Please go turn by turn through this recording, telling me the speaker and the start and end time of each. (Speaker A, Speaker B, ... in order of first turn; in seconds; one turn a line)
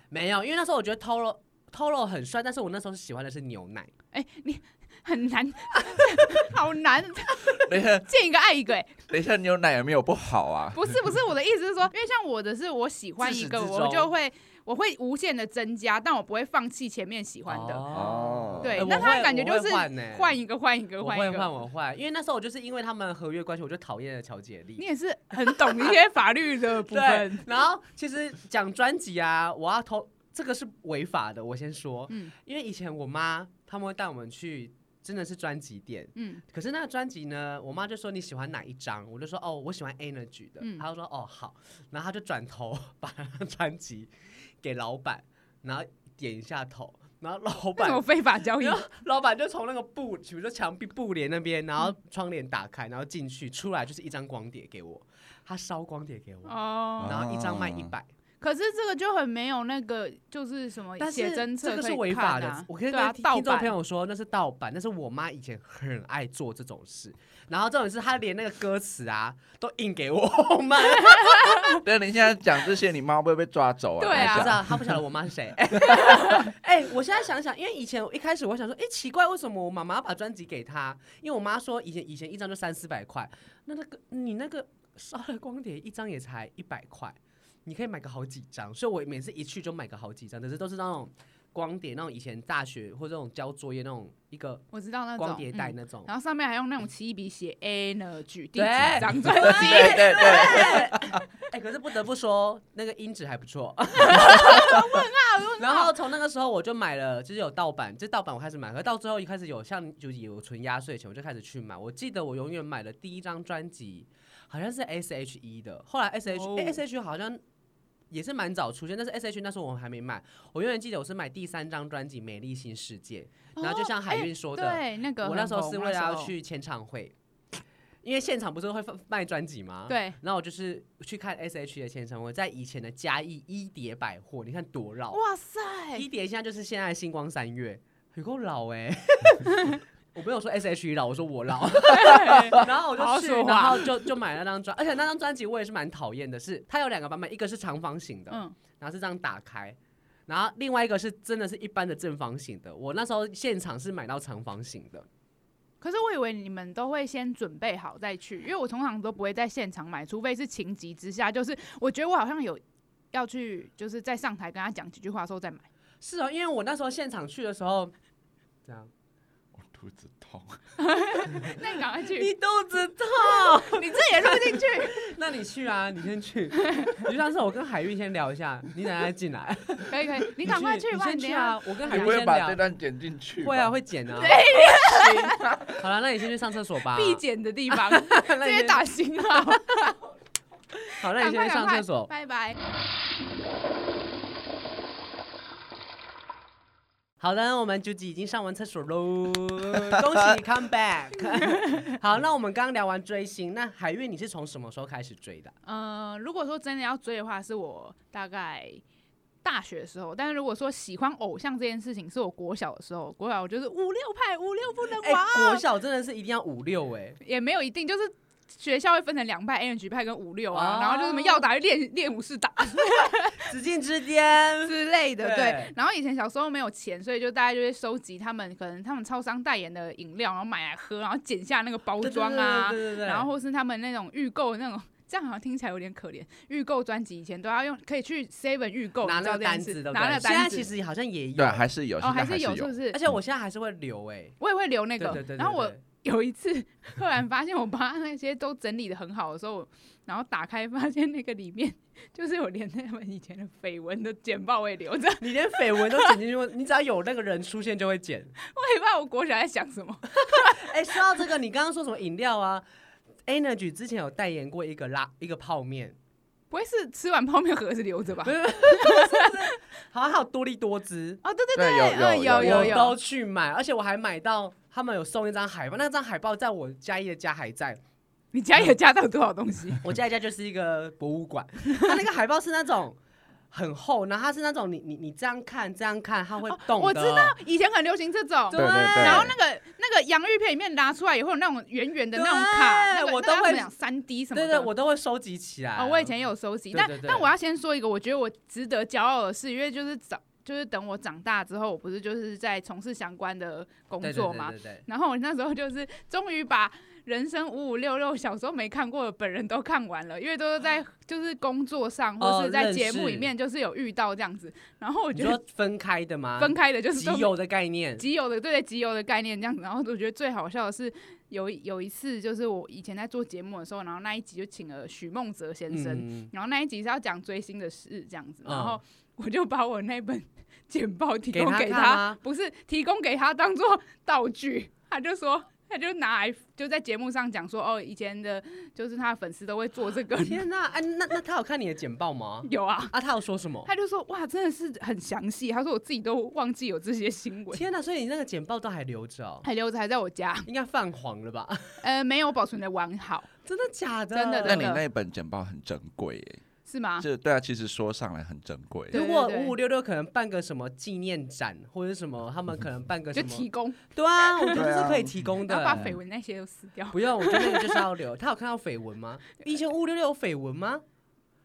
Speaker A: 0.1-3.9
Speaker B: 4.1-9.0
Speaker C: 7.6-8.1
Speaker C: 9.1-11.0
Speaker B: 10.7-17.9
Speaker A: 13.2-14.1
Speaker A: 17.5-20.4
Speaker C: 17.9-18.9
Speaker B: 18.6-21.5
Speaker A: 21.0-24.9
Speaker B: 24.8-27.5
Speaker A: 25.5-25.9
Speaker A: 26.9-58.1
Speaker B: 36.2-36.4
Speaker B: 47.8-48.9
Speaker B: 56.5-57.2
Speaker C: 57.0-57.9
Speaker B: 58.4-63.7
Speaker A: 61.0-71.8
Speaker B: 70.9-71.8
Speaker C: 71.8-75.0
Speaker B: 74.0-74.6
Speaker A: 74.1-94.7
Speaker B: 76.0-76.5
Speaker B: 94.7-100.8
Speaker A: 95.2-96.1
Speaker A: 98.6-105.0
Speaker C: 99.2-101.2
Speaker B: 104.0-105.9
Speaker A: 105.6-117.4
Speaker B: 116.3-116.8
Speaker A: 118.1-127.1
Speaker B: 123.6-126.3
Speaker A: 128.0-135.2
Speaker B: 129.9-130.2
Speaker B: 135.1-136.1
Speaker A: 135.9-155.1
Speaker B: 141.9-143.9
Speaker B: 148.3-148.6
Speaker B: 155.8-162.6
Speaker B: 163.1-165.7
Speaker A: 166.0-167.9
Speaker A: 168.7-168.9
Speaker C: 169.6-170.6
Speaker B: 170.8-172.3
Speaker A: 171.3-182.6
Speaker B: 173.4-175.1
Speaker B: 176.7-177.0
Speaker B: 179.9-182.2
Speaker C: 181.9-183.7
Speaker A: 183.4-184.4
Speaker B: 184.2-185.4
Speaker C: 184.9-185.6
Speaker A: 185.8-188.8
Speaker B: 186.9-190.0
Speaker A: 191.0-192.1
Speaker B: 191.2-192.6
Speaker A: 197.2-205.6
Speaker B: 205.7-208.8
Speaker B: 209.4-215.6
Speaker A: 214.9-217.2
Speaker B: 217.2-223.5
Speaker A: 220.5-221.4
Speaker A: 223.4-225.7
Speaker B: 224.6-240.7
Speaker A: 232.0-233.3
Speaker A: 239.0-241.6
Speaker C: 241.4-242.8
Speaker B: 242.0-243.0
Speaker A: 242.9-244.4
Speaker B: 244.4-256.2
Speaker A: 245.0-245.8
Speaker A: 255.2-258.3
Speaker B: 258.5-260.6
Speaker A: 260.2-262.6
Speaker A: 263.3-266.0
Speaker B: 266.5-269.5
Speaker A: 268.2-271.2
Speaker B: 271.2-273.0
Speaker C: 271.5-272.8
Speaker A: 272.4-277.8
Speaker B: 278.3-279.8
Speaker A: 279.8-283.0
Speaker A: 283.5-287.4
Speaker B: 286.5-294.7
Speaker A: 288.5-289.3
Speaker C: 288.5-289.4
Speaker A: 292.1-293.7
Speaker A: 294.3-296.1
Speaker B: 295.8-315.4
Speaker A: 296.7-297.3
Speaker A: 304.0-304.8
Speaker A: 312.2-313.3
Speaker A: 315.1-318.1
Speaker B: 316.4-317.4
Speaker B: 318.0-340.5
Speaker A: 325.7-326.3
Speaker A: 328.4-328.8
Speaker A: 331.3-332.2
Speaker A: 340.1-343.7
Speaker B: 342.5-342.9
Speaker B: 343.7-347.6
Speaker A: 347.5-349.5
Speaker B: 349.4-350.5
Speaker A: 350.5-351.8
Speaker B: 351.8-353.3
Speaker A: 353.4-354.7
Speaker B: 354.1-354.8
Speaker C: 354.4-356.4
Speaker B: 356.7-357.1
Speaker C: 357.0-359.0
Speaker B: 358.9-359.6
Speaker A: 358.9-366.0
Speaker B: 363.1-364.8
Speaker C: 364.5-365.2
Speaker B: 365.5-367.8
Speaker A: 366.9-370.8